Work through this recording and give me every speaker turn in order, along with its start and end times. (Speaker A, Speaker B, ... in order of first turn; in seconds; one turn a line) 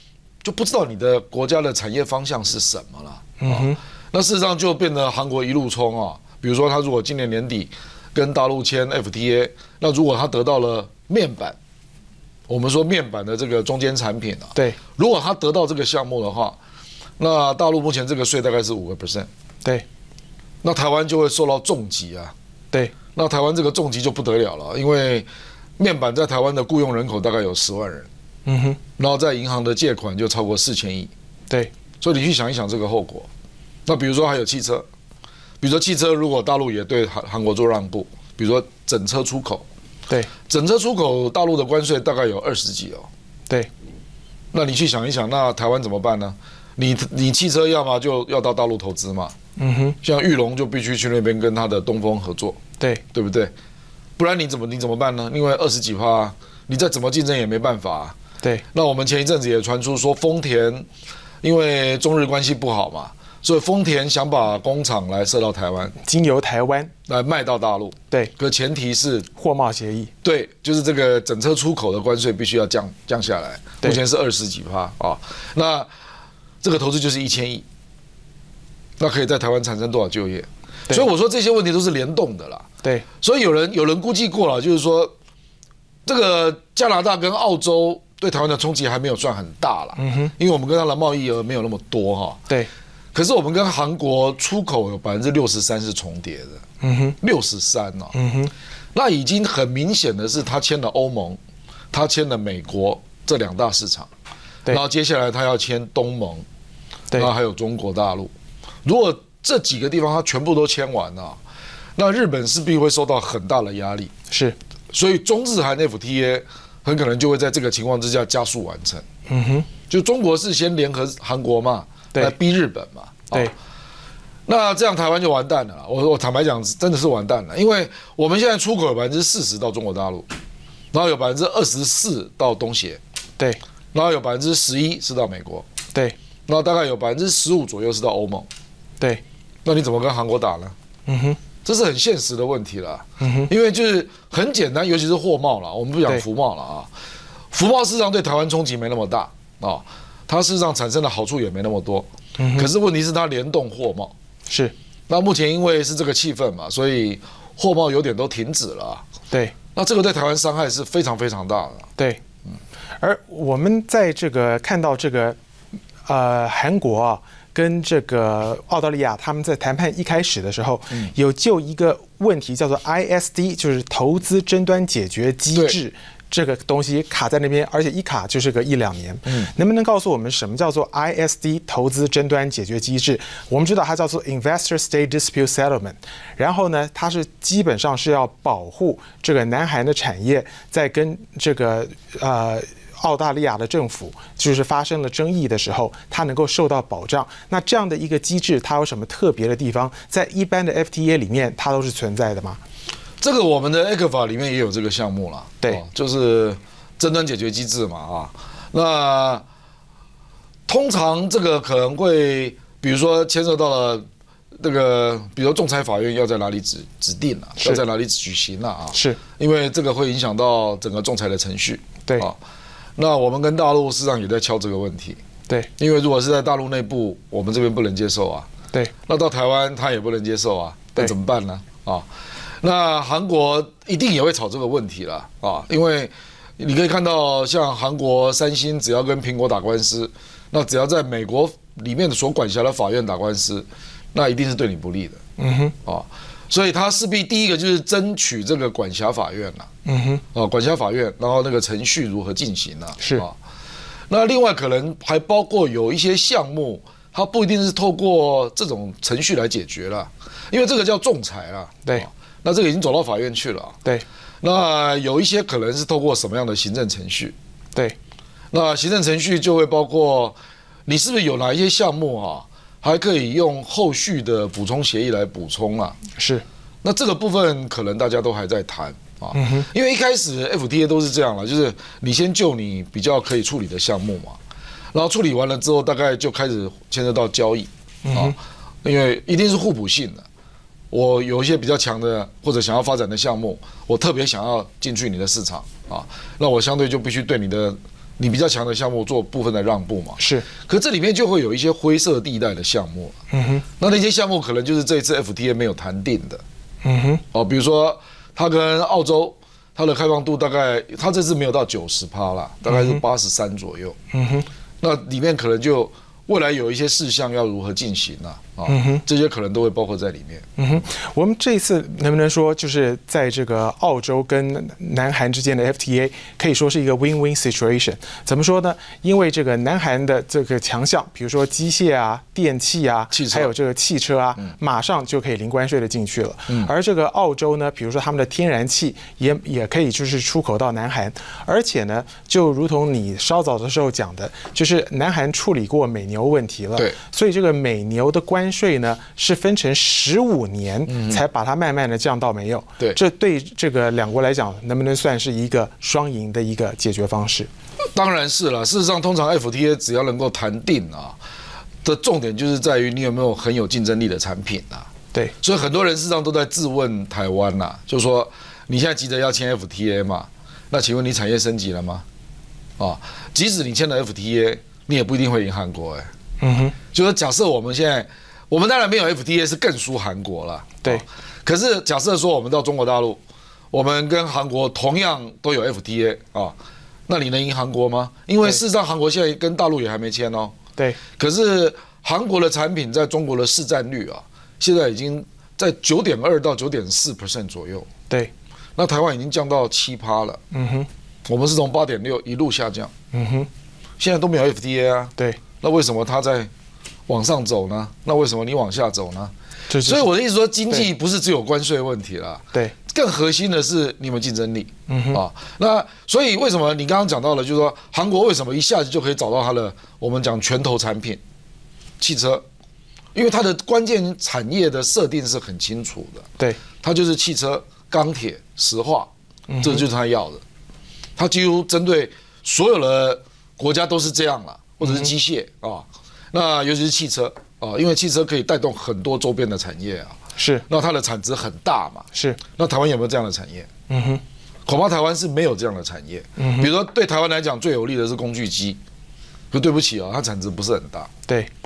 Speaker A: 0.4-11.6
Speaker B: 3.4-3.8
Speaker A: 12.5-16.6
Speaker A: 17.2-19.3
Speaker A: 20.6-22.3
Speaker A: 23.1-28.1
Speaker B: 28.5-28.8
Speaker A: 29.0-31.1
Speaker A: 32.0-33.3
Speaker A: 33.9-34.9
Speaker A: 35.6-39.7
Speaker A: 40.5-43.1
Speaker A: 44.5-49.4
Speaker B: 49.6-50.0
Speaker A: 50.0-52.6
Speaker A: 53.1-53.5
Speaker A: 54.2-58.2
Speaker A: 58.7-60.9
Speaker A: 61.4-66.0
Speaker B: 66.0-66.9
Speaker A: 67.1-69.3
Speaker B: 69.4-70.1
Speaker A: 70.2-75.9
Speaker A: 76.6-77.7
Speaker A: 79.0-82.7
Speaker A: 83.2-85.1
Speaker A: 86.1-92.4
Speaker B: 90.0-90.3
Speaker A: 93.1-96.6
Speaker B: 96.8-97.2
Speaker A: 97.2-98.2
Speaker B: 98.1-98.5
Speaker A: 98.9-101.4
Speaker A: 101.9-104.1
Speaker A: 104.7-106.4
Speaker A: 107.1-108.3
Speaker A: 108.8-111.4
Speaker A: 112.0-114.1
Speaker B: 114.3-114.6
Speaker A: 114.9-119.0
Speaker B: 119.3-119.7
Speaker A: 119.9-123.5
Speaker A: 124.5-130.3
Speaker A: 130.9-133.0
Speaker A: 133.9-135.7
Speaker A: 136.5-138.5
Speaker A: 139.7-140.8
Speaker B: 141.1-141.4
Speaker A: 141.7-146.9
Speaker B: 143.2-143.5
Speaker A: 147.5-154.1
Speaker B: 152.4-152.7
Speaker B: 154.5-154.7
Speaker A: 155.1-159.0
Speaker A: 159.8-161.9
Speaker B: 163.0-165.4
Speaker B: 166.1-202.6
Speaker A: 175.5-175.8
Speaker A: 203.2-209.4
Speaker A: 210.7-222.4
Speaker B: 218.9-219.2
Speaker A: 223.0-225.2
Speaker A: 225.8-228.5
Speaker A: 229.1-232.1
Speaker A: 232.6-245.2
Speaker B: 245.4-245.7
Speaker A: 245.8-249.7
Speaker B: 249.9-250.2
Speaker A: 250.3-253.4
Speaker A: 254.1-263.8
Speaker A: 264.4-267.4
Speaker A: 268.5-276.0
Speaker B: 276.2-276.4
Speaker A: 276.8-284.4
Speaker B: 279.3-279.7
Speaker A: 284.9-290.3
Speaker B: 288.1-288.4
Speaker A: 290.9-303.2
Speaker B: 300.2-300.5
Speaker B: 303.3-303.6
Speaker A: 303.8-306.4
Speaker B: 306.8-307.2
Speaker A: 307.3-314.0
Speaker B: 312.7-313.0
Speaker B: 314.1-314.5
Speaker A: 314.8-320.5
Speaker B: 318.7-319.0
Speaker B: 320.6-357.5
Speaker A: 333.1-333.5
Speaker A: 350.9-351.2
Speaker A: 357.9-361.2
Speaker A: 361.8-364.9
Speaker A: 365.4-372.1
Speaker A: 372.8-376.1
Speaker B: 376.4-376.8
Speaker A: 376.9-383.2
Speaker A: 383.7-386.6
Speaker A: 387.1-390.6
Speaker A: 391.2-397.9
Speaker A: 398.8-400.4
Speaker B: 400.5-400.9
Speaker A: 401.3-402.9
Speaker B: 403.1-403.5
Speaker A: 404.0-406.5
Speaker A: 407.1-421.2
Speaker B: 409.7-410.1
Speaker B: 414.9-415.2
Speaker A: 422.0-422.4
Speaker A: 423.1-426.3
Speaker A: 426.8-430.4
Speaker B: 429.5-429.8
Speaker A: 431.2-443.7
Speaker B: 434.8-435.1
Speaker B: 440.4-440.7
Speaker B: 442.1-442.4
Speaker B: 443.9-444.2
Speaker A: 444.7-448.8
Speaker B: 446.4-446.7
Speaker A: 449.5-451.1